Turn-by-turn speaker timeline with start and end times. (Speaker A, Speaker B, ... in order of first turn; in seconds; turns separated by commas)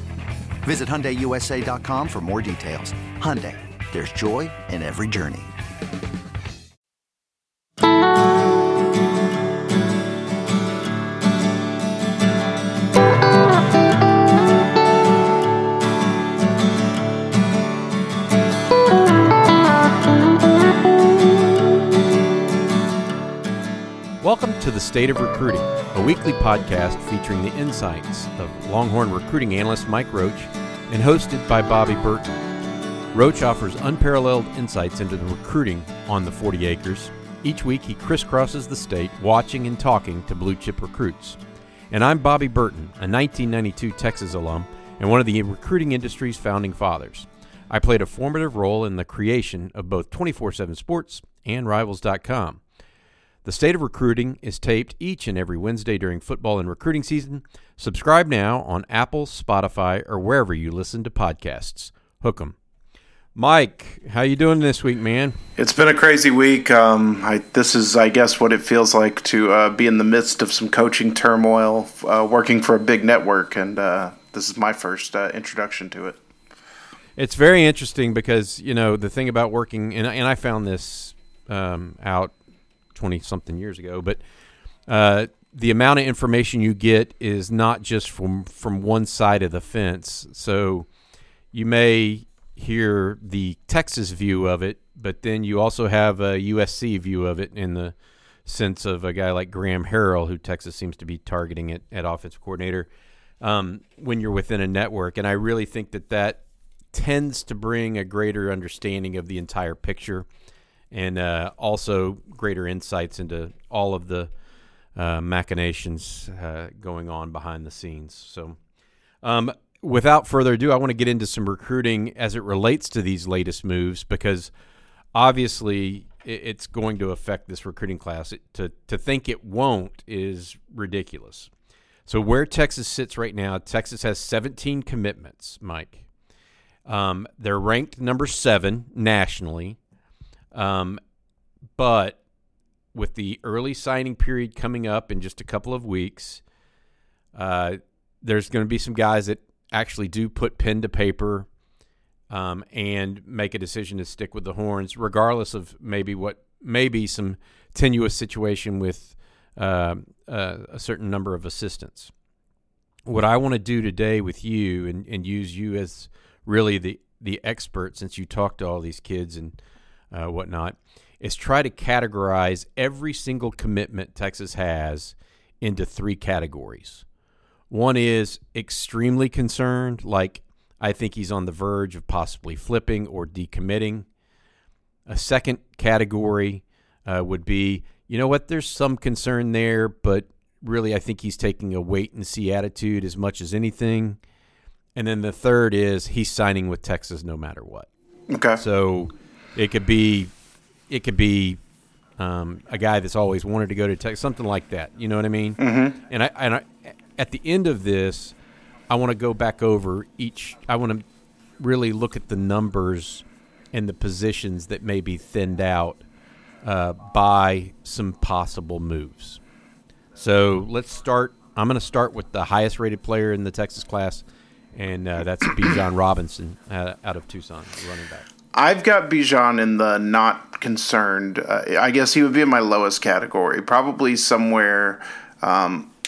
Speaker A: 0.6-5.5, Speaker B: 24.2-32.4, Speaker B: 33.1-41.4, Speaker B: 41.9-52.6, Speaker B: 53.4-62.5, Speaker B: 63.4-65.4, Speaker C: 65.6-76.2, Speaker B: 77.2-82.3, Speaker B: 82.9-84.2, Speaker B: 84.9-90.9, Speaker B: 91.5-102.9, Speaker B: 103.4-110.3, Speaker B: 110.9-114.3, Speaker B: 114.9-118.6, Speaker B: 119.2-124.5, Speaker B: 125.1-131.5, Speaker B: 132.1-136.1, Speaker B: 136.9-139.8, Speaker B: 140.5-141.0, Speaker B: 141.8-142.2, Speaker B: 142.9-146.4, Speaker B: 147.3-151.5, Speaker B: 152.3-162.1, Speaker B: 163.1-169.6, Speaker B: 170.1-177.1, Speaker B: 177.7-184.1, Speaker B: 185.1-194.2, Speaker B: 194.9-197.9, Speaker C: 198.3-198.6, Speaker B: 198.6-200.3, Speaker B: 200.9-201.6, Speaker B: 202.2-208.3, Speaker C: 205.6-205.9, Speaker B: 208.9-211.0, Speaker B: 211.6-216.0, Speaker B: 216.6-219.4, Speaker B: 220.2-228.2, Speaker C: 228.5-235.9